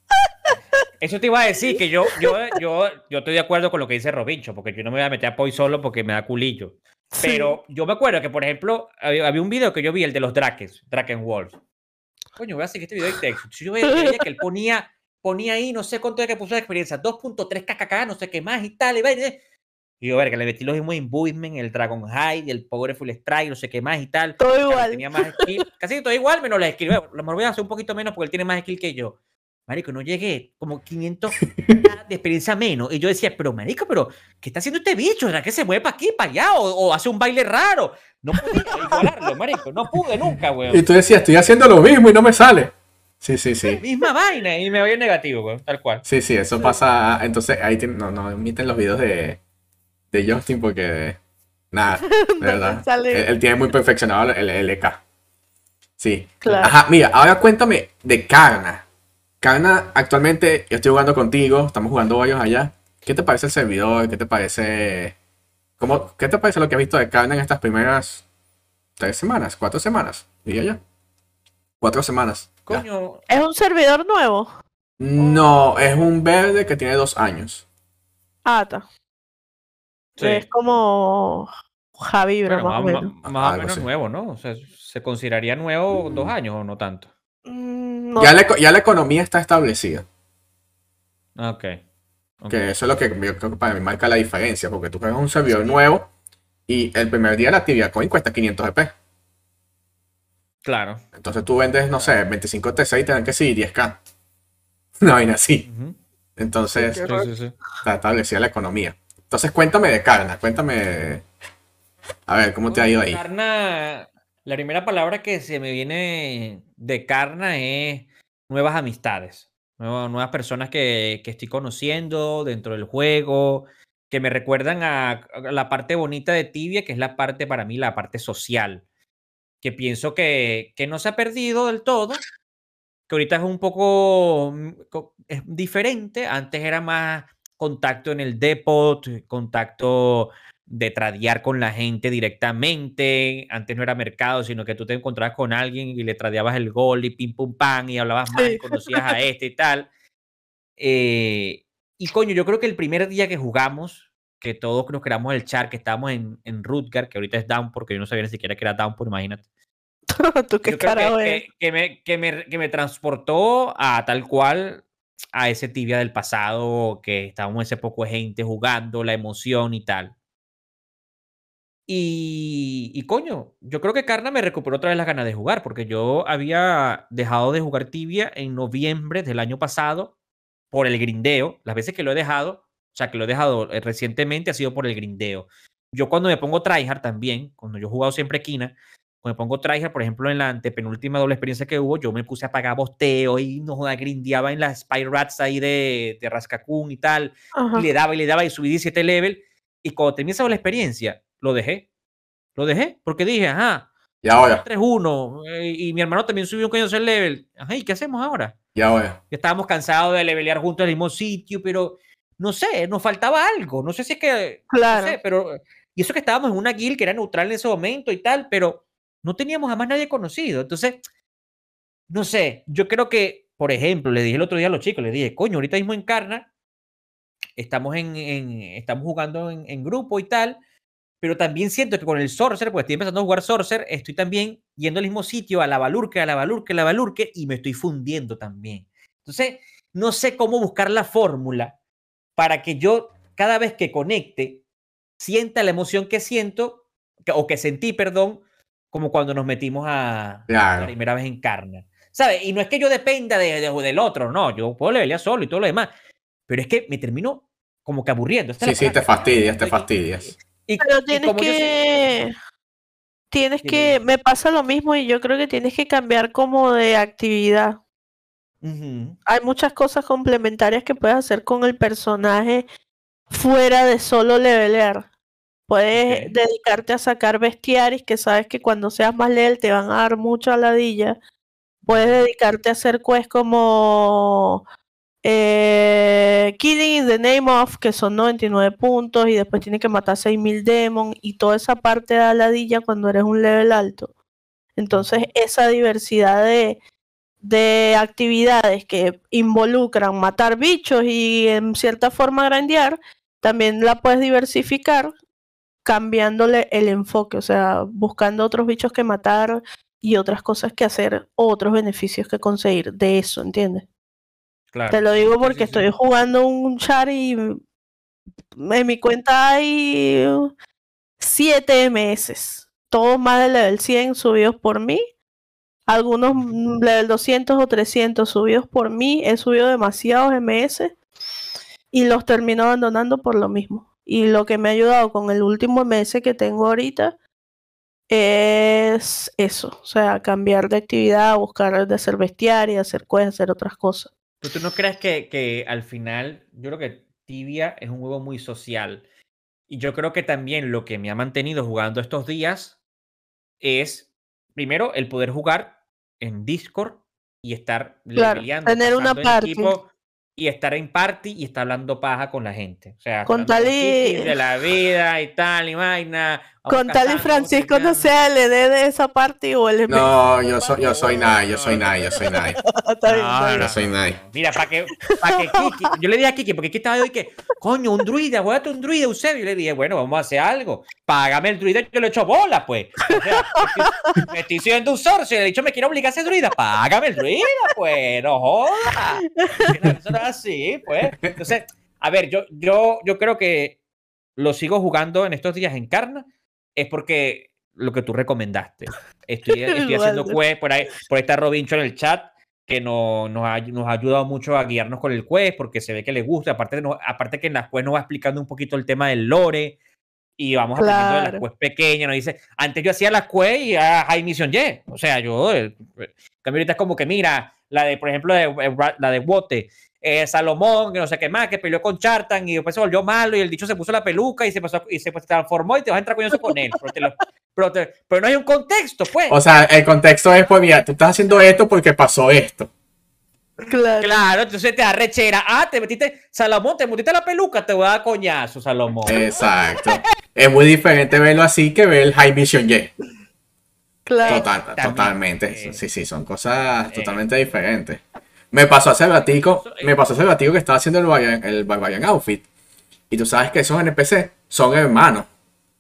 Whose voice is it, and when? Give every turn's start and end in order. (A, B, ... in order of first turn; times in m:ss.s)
0:01.0-0:11.6 A
0:07.2-0:07.5 B
0:12.4-0:19.4 A
0:13.8-0:14.2 B
0:20.0-0:29.2 A
0:24.4-0:25.4 B
0:29.7-0:40.8 A
0:40.7-0:43.8 C
0:43.8-0:46.0 A
0:46.0-0:49.4 C
0:50.1-0:51.2 C
0:51.7-0:55.0 C
0:52.0-0:53.3 B
0:56.0-0:58.8 C
0:56.4-0:56.7 B
0:59.4-1:05.2 C
1:05.8-1:08.2 C
1:09.0-1:10.8 C
1:11.8-1:12.8 C
1:12.7-1:13.3 A
1:13.3-1:14.5 B
1:15.0-1:17.6 C
1:15.2-1:15.5 B
1:18.4-1:18.8 B
1:20.2-1:20.4 A
1:20.2-1:23.1 B
1:22.5-1:27.1 A
1:23.2-1:23.8 C
1:27.5-1:28.4 B
1:28.2-1:30.0 C
1:31.4-1:31.8 A
1:32.4-1:32.7 A
1:32.5-1:36.1 C
1:35.5-1:35.8 A
1:36.7-1:38.9 C
1:40.6-1:41.0 A
1:41.2-1:44.0 C
1:45.0-1:45.7 C
1:45.6-1:46.0 A
1:46.4-1:47.1 C
1:46.8-1:47.6 A
1:46.8-1:47.3 B
1:47.8-1:51.2 C
1:52.3-1:53.2 C
1:52.7-2:08.8 A
2:09.6-2:12.2 A
2:13.1-2:29.9 A
2:28.3-2:29.1 B
2:30.8-2:39.4 A
2:40.1-2:41.4 B
2:40.6-2:50.1 A
2:51.9-3:00.1 A
3:00.7-3:21.9 A
3:17.6-3:17.9 B
3:22.6-3:28.6 A
3:24.2-3:24.6 C
3:28.8-3:29.2 C
3:29.3-3:41.0 A
3:34.7-3:35.2 B
3:42.1-3:46.5 A
3:47.6-3:50.6 A
3:51.2-4:01.8 A
4:02.4-4:04.6 A
4:05.2-4:15.9 A
4:10.5-4:10.9 C
4:16.5-4:21.8 A
4:18.6-4:20.3 C
4:20.8-4:22.3 B
4:23.3-4:27.8 B
4:23.6-4:24.0 A
4:28.6-4:29.2 A
4:29.3-4:32.7 B
4:33.3-4:35.1 B
4:35.7-4:41.2 B
4:35.9-4:36.3 A
4:41.8-4:44.6 B
4:41.9-4:42.2 A
4:45.2-4:54.1 B
4:54.8-4:56.8 B
4:54.9-4:55.3 A
4:57.4-5:05.1 B
5:05.8-5:13.8 B
5:14.7-5:15.9 A
5:14.9-5:17.6 B
5:18.6-5:20.5 B
5:21.2-5:25.0 B
5:25.9-5:30.9 B
5:26.3-5:26.6 A
5:31.9-5:37.2 B
5:38.1-5:44.1 B
5:44.4-5:49.0 A
5:49.7-5:52.8 A
5:53.6-6:08.1 A
5:58.2-5:59.7 B
6:03.3-6:04.3 B
6:06.7-6:10.1 B
6:09.9-6:12.6 C
6:10.2-6:12.3 A
6:12.3-6:13.8 B
6:13.1-6:33.8 A
6:13.6-6:14.2 C
6:15.1-6:15.6 B
6:29.4-6:29.7 B
6:34.4-6:49.8 A
6:39.7-6:40.4 B
6:50.4-7:09.4 A
6:50.8-6:51.4 B
7:09.3-7:12.7 C
7:13.7-7:14.2 B
7:14.0-7:19.2 A
7:19.1-7:22.9 C
7:19.1-7:19.4 B
7:24.1-7:24.4 B
7:24.2-7:25.8 A
7:24.2-7:32.5 C
7:26.9-7:27.2 A
7:29.3-7:30.0 A
7:33.1-7:35.3 C